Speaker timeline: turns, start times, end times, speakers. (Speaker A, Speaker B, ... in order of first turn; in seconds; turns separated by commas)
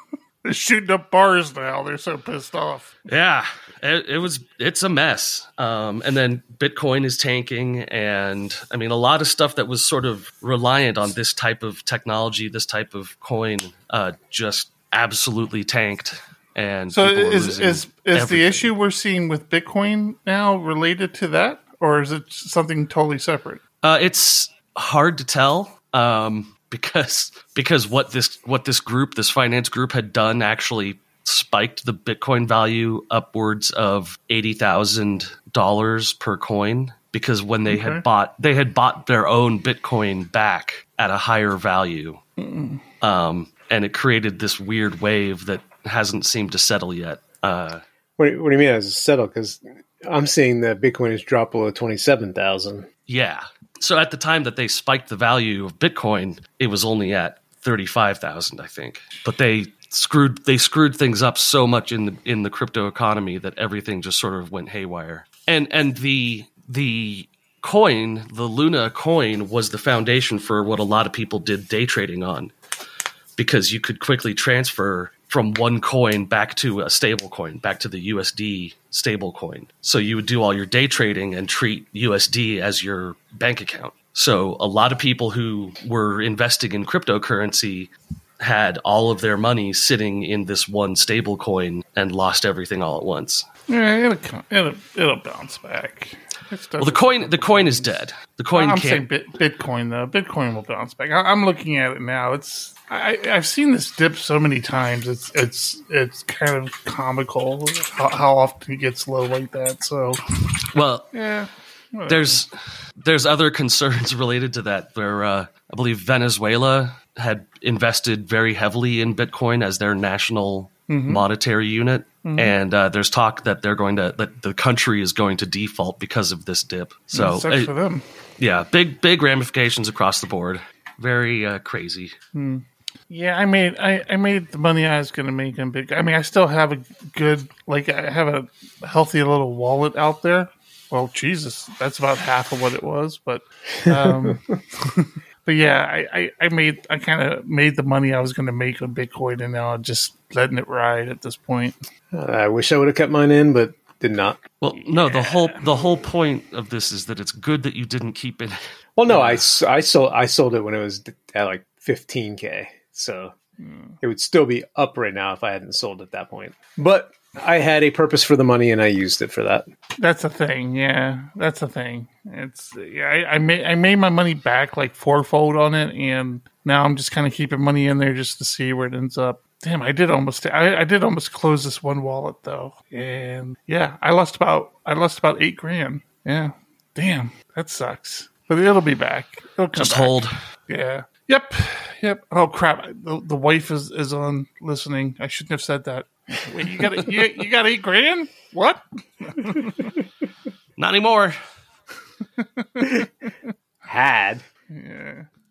Speaker A: 0.4-2.9, Speaker B: 3.0-18.7, Speaker A: 16.9-23.6, Speaker B: 23.8-42.2, Speaker A: 37.7-38.0, Speaker A: 42.4-42.8, Speaker B: 43.0-47.8, Speaker C: 48.2-52.9, Speaker B: 53.1-72.5, Speaker B: 73.4-93.5, Speaker A: 93.7-98.0, Speaker B: 96.8-99.0, Speaker A: 98.5-110.2, Speaker B: 110.7-111.1, Speaker A: 111.1-112.4, Speaker B: 112.1-127.7, Speaker A: 120.9-121.2, Speaker A: 122.2-122.5, Speaker A: 127.1-128.0, Speaker B: 128.4-132.1, Speaker A: 132.3-151.8, Speaker C: 143.8-144.4, Speaker C: 152.1-154.4, Speaker B: 154.6-159.4, Speaker A: 154.8-155.6, Speaker C: 159.0-163.3, Speaker A: 163.6-164.0, Speaker C: 164.0-169.7, Speaker A: 170.0-199.9, Speaker B: 189.8-190.3, Speaker B: 200.8-201.4, Speaker A: 202.4-203.1, Speaker C: 203.8-204.4, Speaker A: 204.7-205.3